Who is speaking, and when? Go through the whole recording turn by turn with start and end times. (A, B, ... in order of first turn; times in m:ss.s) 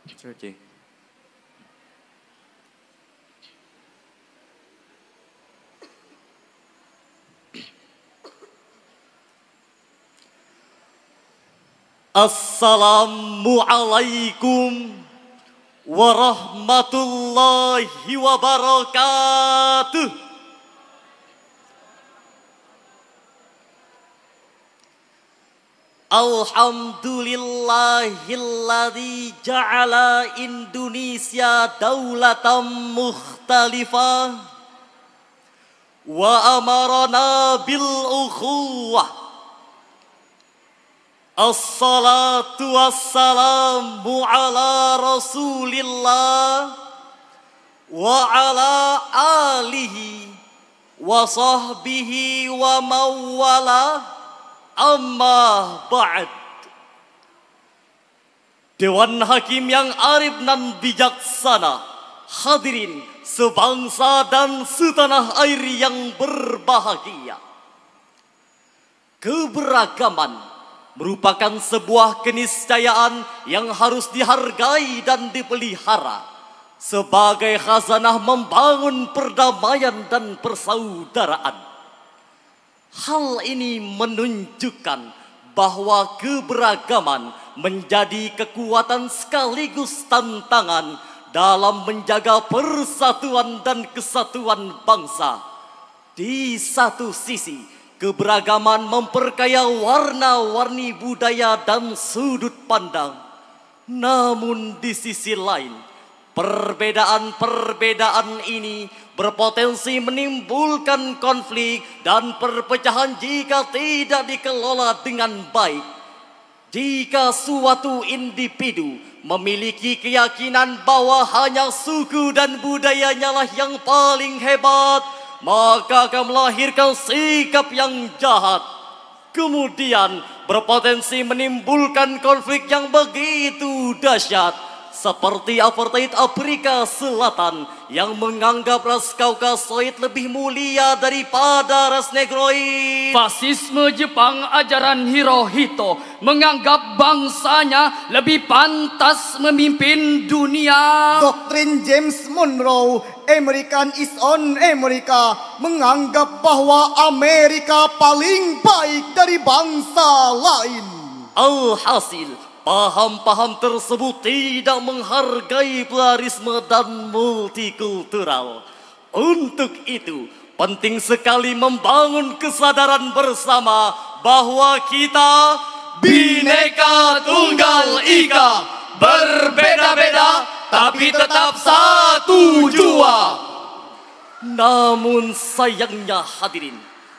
0:12.2-0:15.0 A
0:15.9-0:20.1 A
0:26.1-0:34.3 A
0:36.1-0:39.1 A
0:41.4-0:46.7 A
0:47.9-0:50.3 A
0:51.0-0:54.0 A
0:54.8-0:56.3 A
0:58.8-1:01.8 A
1:02.3-1:07.4 A
1:09.2-1:10.4 A
1:11.0-1:16.2 A
1:16.8-1:21.6 A
1:23.0-1:25.0 A
1:25.6-1:35.4 A
1:36.2-1:43.2 A
1:43.9-1:45.8 A
1:46.4-1:55.8 A
1:56.7-2:08.6 A
2:09.3-2:23.2 A
2:23.1-2:31.3 B
2:31.1-2:41.3 C
2:41.4-2:48.6 A
2:49.2-3:03.3 A
2:56.0-2:56.6 C
2:56.1-3:03.3 B
3:01.0-3:01.3 C
3:04.4-3:06.8 A